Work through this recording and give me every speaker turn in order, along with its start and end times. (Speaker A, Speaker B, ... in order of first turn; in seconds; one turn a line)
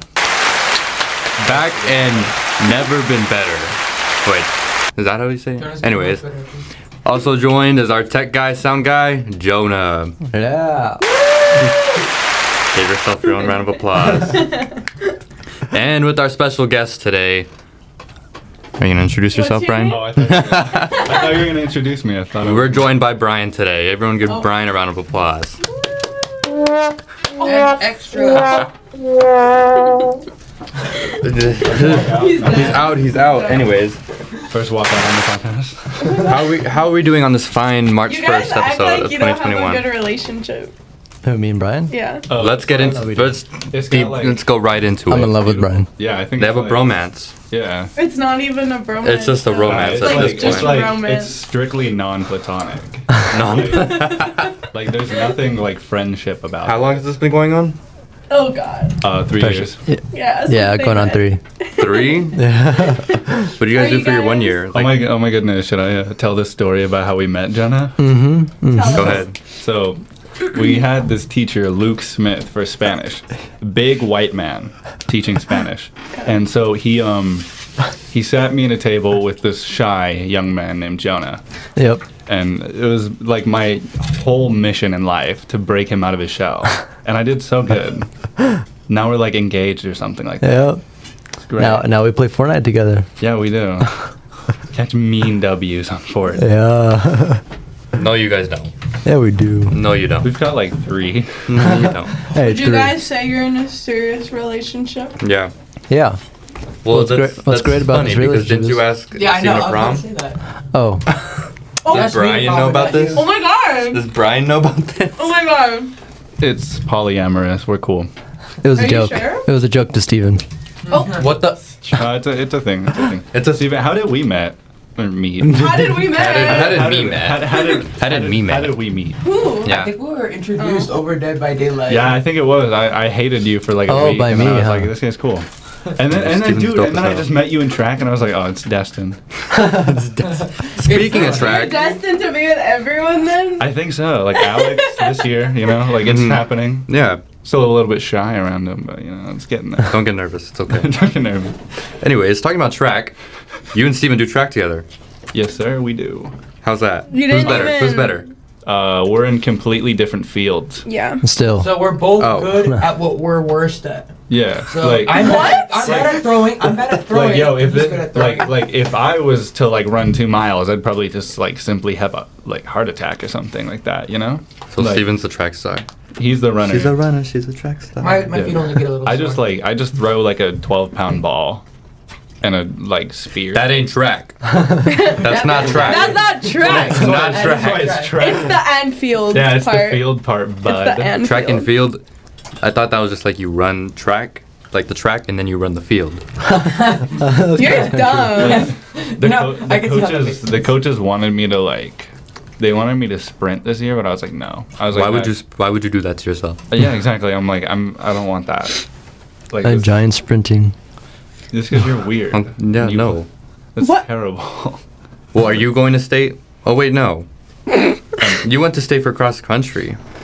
Speaker A: 1.4-2.4
Speaker B: 1.4-6.2
Speaker C: 5.6-6.7
Speaker B: 7.0-10.2
Speaker D: 10.3-11.0
Speaker E: 11.2-11.7
Speaker B: 12.7-14.6
Speaker E: 14.3-14.7
Speaker B: 15.7-17.5
Speaker B: 18.8-21.2
Speaker E: 19.3-20.1
Speaker A: 19.8-22.9
Speaker E: 20.8-21.4
Speaker B: 22.4-25.6
Speaker C: 27.4-28.7
Speaker B: 31.2-34.0
Speaker A: 31.6-33.0
Speaker E: 31.8-33.6
Speaker A: 34.5-36.3
Speaker B: 36.1-39.9
Speaker E: 38.0-40.7
Speaker D: 41.2-41.9
Speaker E: 41.9-42.2
Speaker A: 42.3-44.5
Speaker B: 42.3-45.4
Speaker D: 45.1-45.9
Speaker A: 45.1-47.9
Speaker B: 46.4-47.3
Speaker E: 48.0-51.4
Speaker B: 49.0-50.9
Speaker A: 49.6-54.1
Speaker B: 53.3-54.5
Speaker E: 53.7-54.5
Speaker A: 54.7-57.0
Speaker B: 56.6-57.8
Speaker E: 58.3-59.0
Speaker A: 59.0-59.8
Speaker D: 59.4-61.4
Speaker E: 60.1-62.4
Speaker B: 61.8-62.5
Speaker D: 62.3-63.5
Speaker B: 63.5-65.0
Speaker E: 63.7-64.6
Speaker A: 64.7-67.9
Speaker D: 68.0-69.2
Speaker E: 68.7-69.3
Speaker B: 68.9-69.3
Speaker A: 69.4-77.5
Speaker A: 78.1-81.4
Speaker D: 81.8-82.0
Speaker A: 82.2-88.1
Speaker A: 88.9-90.8
Speaker D: 90.4-90.8
Speaker A: 91.4-91.9
Speaker D: 91.6-93.1
Speaker A: 93.2-94.0
Speaker A: 94.7-96.4
Speaker D: 96.4-97.4
Speaker B: 98.0-98.7
Speaker D: 99.0-99.8
Speaker B: 99.7-100.3
Speaker A: 100.2-101.7
Speaker B: 101.5-102.1
Speaker D: 102.3-103.0
Speaker E: 102.4-105.1
Speaker B: 105.2-105.5
Speaker D: 105.9-106.2
Speaker B: 106.8-110.0
Speaker D: 106.9-108.8
Speaker C: 109.1-110.4
Speaker D: 110.7-111.0
Speaker E: 111.8-112.1
Speaker C: 111.8-113.3
Speaker B: 111.9-113.2
Speaker E: 113.1-114.0
Speaker B: 113.8-115.3
Speaker E: 115.2-115.9
Speaker A: 116.4-118.1
Speaker D: 118.6-120.4
Speaker E: 118.7-119.5
Speaker E: 120.9-121.2
Speaker B: 121.1-122.0
Speaker A: 121.9-129.2
Speaker B: 123.3-123.6
Speaker E: 125.5-126.9
Speaker B: 125.7-128.8
Speaker E: 127.5-127.8
Speaker E: 129.2-129.7
Speaker B: 129.6-129.9
Speaker C: 129.6-132.2
Speaker E: 130.6-130.9
Speaker A: 131.9-139.2
Speaker D: 133.8-134.9
Speaker B: 136.1-137.3
Speaker B: 139.5-141.8
Speaker C: 140.8-141.8
Speaker E: 141.1-143.7
Speaker A: 143.6-150.1
Speaker E: 144.3-145.3
Speaker B: 146.0-147.2
Speaker B: 149.9-150.9
Speaker A: 150.7-151.6
Speaker B: 152.0-153.1
Speaker B: 153.7-154.8
Speaker A: 155.3-156.3
Speaker B: 156.6-158.3
Speaker E: 157.1-158.2
Speaker A: 158.6-160.8
Speaker E: 160.8-161.2
Speaker D: 161.2-161.7
Speaker C: 161.6-164.1
Speaker B: 162.2-162.6
Speaker A: 164.3-175.1
Speaker C: 164.7-168.6
Speaker E: 165.1-166.2
Speaker B: 174.7-175.8
Speaker A: 176.2-177.0
Speaker B: 176.6-178.3
Speaker C: 178.0-179.5
Speaker A: 178.3-181.6
Speaker A: 182.4-183.8
Speaker B: 183.5-184.4
Speaker E: 184.8-187.1
Speaker B: 185.0-188.1
Speaker C: 185.2-188.2
Speaker A: 186.6-188.6
Speaker E: 188.2-191.7
Speaker A: 189.3-191.1
Speaker B: 191.2-192.0
Speaker B: 192.6-196.2
Speaker D: 196.5-198.5
Speaker C: 196.7-200.7
Speaker E: 197.5-198.7
Speaker A: 198.3-205.3
Speaker B: 204.9-206.6
Speaker A: 206.7-208.8
Speaker A: 209.5-209.9
Speaker D: 209.6-210.7
Speaker A: 211.5-214.8
Speaker B: 212.3-213.3
Speaker E: 213.8-214.1
Speaker B: 215.3-217.3
Speaker B: 218.2-220.0